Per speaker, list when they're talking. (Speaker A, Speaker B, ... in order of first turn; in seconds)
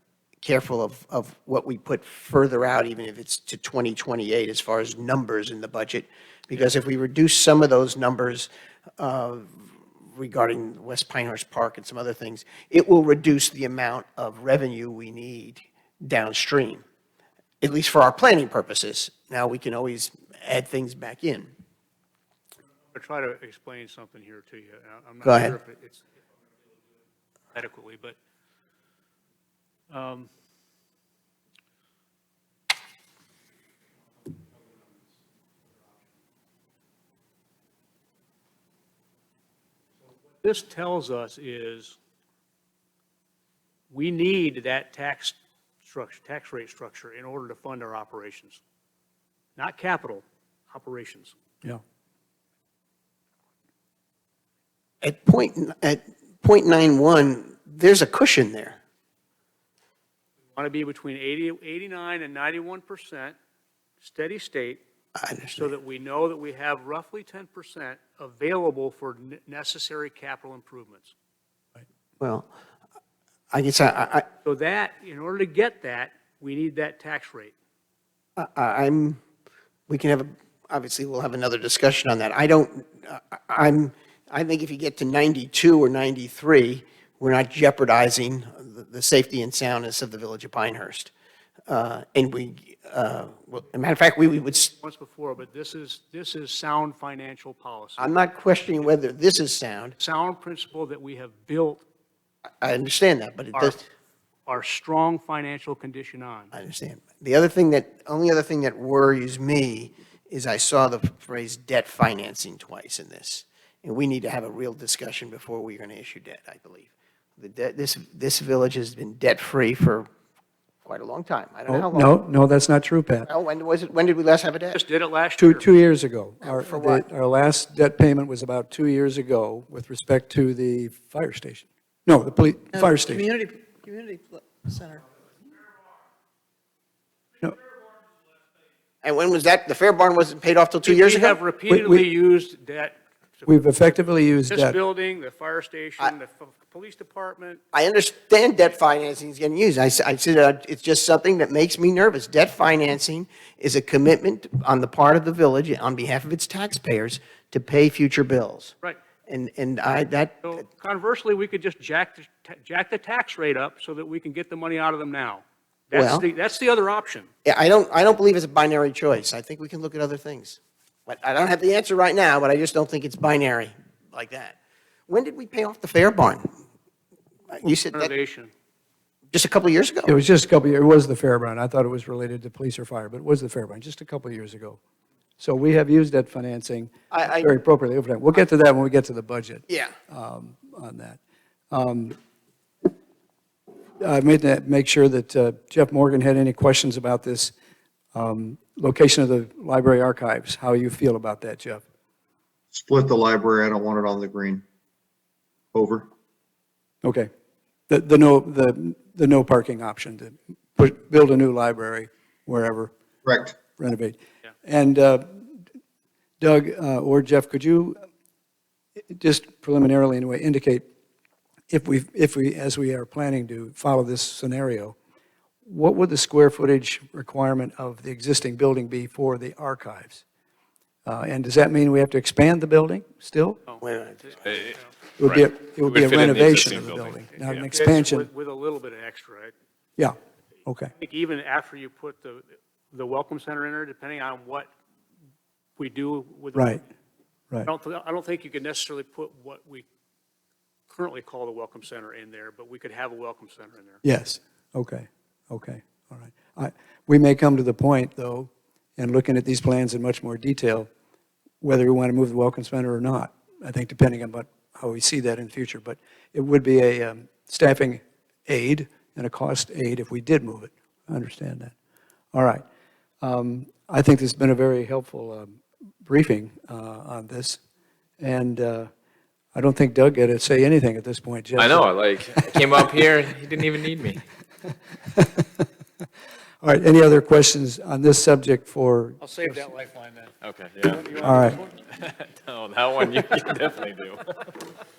Speaker A: 0.4-16.8, 17.6-21.5, 25.2-25.6, 55.0-58.8, 65.2-65.7, 72.2-72.5, 73.5-74.3, 78.4-79.2, 79.9-91.1, 91.7-94.7, 98.0-100.0, 102.6-103.8, 106.5-120.1, 120.8-122.2, 123.2-124.8, 126.4-127.0, 132.7-135.0, 139.0-141.4, 147.7-158.7, 159.3-160.6, 165.9-166.3, 167.4-176.5, 177.5-178.1, 179.3-180.2, 187.1-187.6, 189.7-189.9, 233.8-234.2
Speaker B: 22.9-26.0, 27.5-28.2, 29.9-30.3, 40.4-42.0, 43.9-48.6, 49.6-51.4, 60.6-63.4, 64.0-64.8, 65.6-71.1, 74.5-77.5, 94.7-98.1, 100.0-101.8, 103.5-103.8, 104.5-106.5, 124.7-125.7, 140.8-143.9, 144.5-147.6, 160.4-167.3, 177.9-178.5, 233.7-234.9, 237.4-239.5, 241.0-244.7, 245.8-246.8, 247.6-249.9, 250.9-254.0, 289.2-290.3, 290.9-291.8
Speaker C: 121.7-123.3, 125.4-133.3, 141.7-142.1, 143.5-144.8, 180.1-184.8, 185.4-191.2, 191.7-192.2, 194.0-197.5, 198.1-201.8, 207.0-207.3, 207.9-212.9, 213.8-215.5, 216.4-218.0, 219.1-220.9, 221.7-225.0, 225.7-230.2, 231.1-233.6, 235.2-238.3, 240.7-240.9, 246.5-246.8, 254.0-260.9, 261.6-271.7, 272.3-272.6, 273.2-277.6, 278.2-278.9, 279.6-281.9, 282.5-282.9, 285.1-285.7, 286.6-289.6, 291.2-291.6
Speaker D: 202.7-204.7, 205.7-206.1, 213.2-213.6
Speaker E: 235.2-237.2, 281.6-284.2, 290.4-291.1, 291.9-294.3